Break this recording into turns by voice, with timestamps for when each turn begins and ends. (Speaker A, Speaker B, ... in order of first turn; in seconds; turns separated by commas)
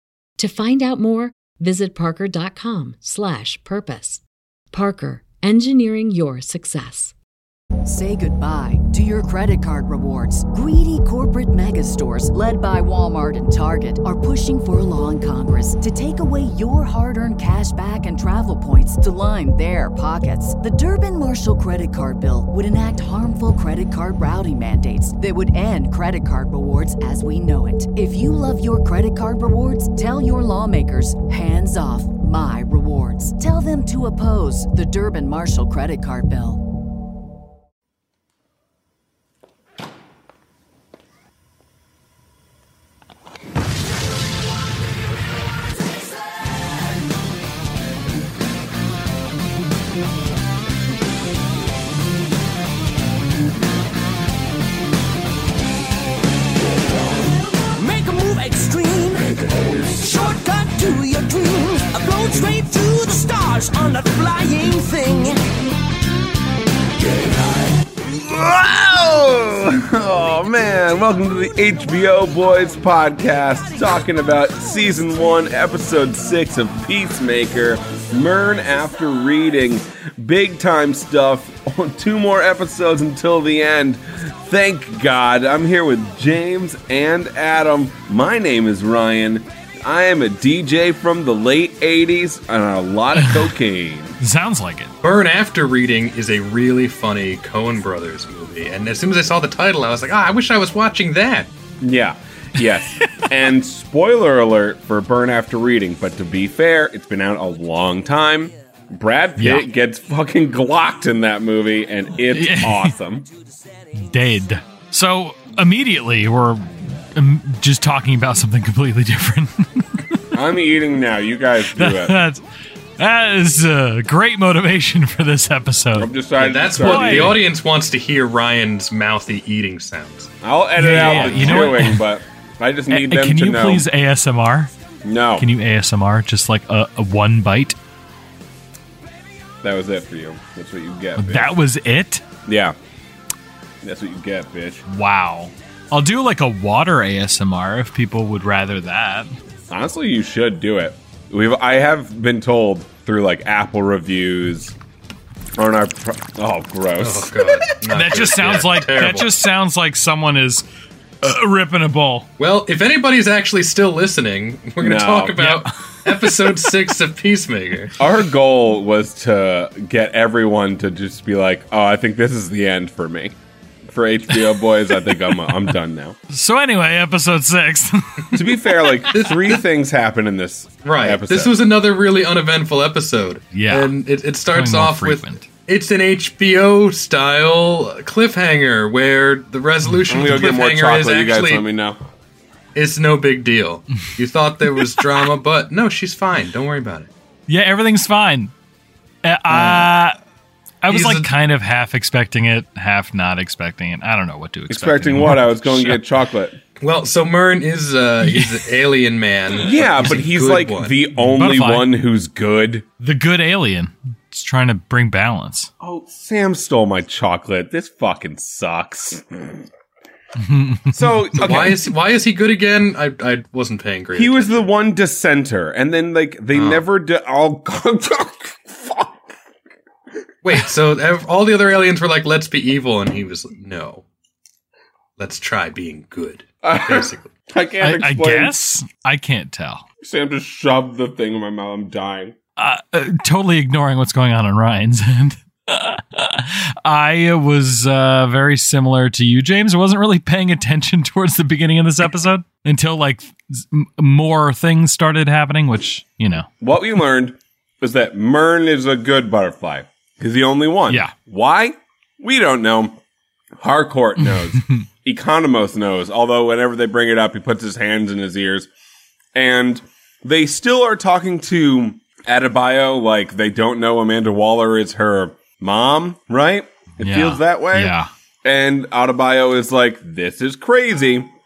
Speaker A: 0.4-7.2, Speaker B: 7.8-36.6, Speaker C: 57.8-65.4, Speaker D: 68.0-94.2, Speaker E: 93.2-93.5, Speaker E: 94.2-94.9, Speaker F: 95.0-101.5, Speaker D: 101.8-113.3, Speaker E: 109.4-109.7, Speaker E: 112.3-112.9, Speaker E: 113.9-120.2, Speaker D: 120.3-122.3, Speaker E: 121.7-122.4, Speaker E: 123.0-126.1, Speaker D: 126.0-127.4, Speaker F: 126.4-131.8, Speaker E: 126.8-127.4, Speaker D: 130.4-133.9, Speaker E: 130.8-132.1, Speaker E: 132.9-134.7, Speaker D: 135.0-135.5, Speaker E: 135.4-137.8, Speaker D: 139.6-141.6, Speaker E: 141.2-142.2, Speaker D: 142.5-142.8, Speaker D: 143.8-144.8, Speaker E: 144.9-149.3, Speaker D: 149.7-154.8, Speaker D: 155.6-157.8, Speaker F: 157.0-159.3, Speaker E: 157.9-160.7, Speaker E: 161.2-162.3, Speaker F: 162.4-168.0, Speaker D: 164.8-165.4, Speaker E: 165.4-166.7, Speaker D: 168.0-173.4, Speaker D: 173.9-176.2, Speaker E: 176.3-179.1, Speaker D: 178.3-181.6, Speaker F: 179.1-179.6, Speaker F: 180.8-191.7, Speaker E: 183.5-183.9, Speaker E: 184.5-185.5, Speaker D: 190.1-192.0, Speaker F: 192.8-197.1, Speaker E: 194.7-195.0, Speaker E: 197.5-198.5, Speaker E: 199.2-200.2, Speaker E: 200.8-206.0, Speaker F: 200.9-201.3, Speaker D: 204.7-206.6, Speaker F: 206.8-211.0, Speaker E: 208.3-208.6, Speaker D: 209.6-212.9, Speaker E: 211.2-211.9, Speaker E: 213.0-215.7, Speaker D: 215.8-219.6, Speaker E: 220.4-221.5, Speaker D: 220.9-221.8, Speaker F: 221.4-224.7, Speaker D: 224.2-229.3, Speaker F: 226.5-226.8, Speaker F: 230.4-234.1, Speaker F: 235.2-237.3, Speaker D: 236.6-238.6, Speaker E: 237.8-239.9, Speaker D: 240.0-242.4, Speaker E: 242.6-256.5, Speaker D: 256.6-263.0, Speaker E: 260.9-261.2, Speaker D: 263.6-268.7, Speaker D: 269.4-281.3, Speaker E: 277.0-278.1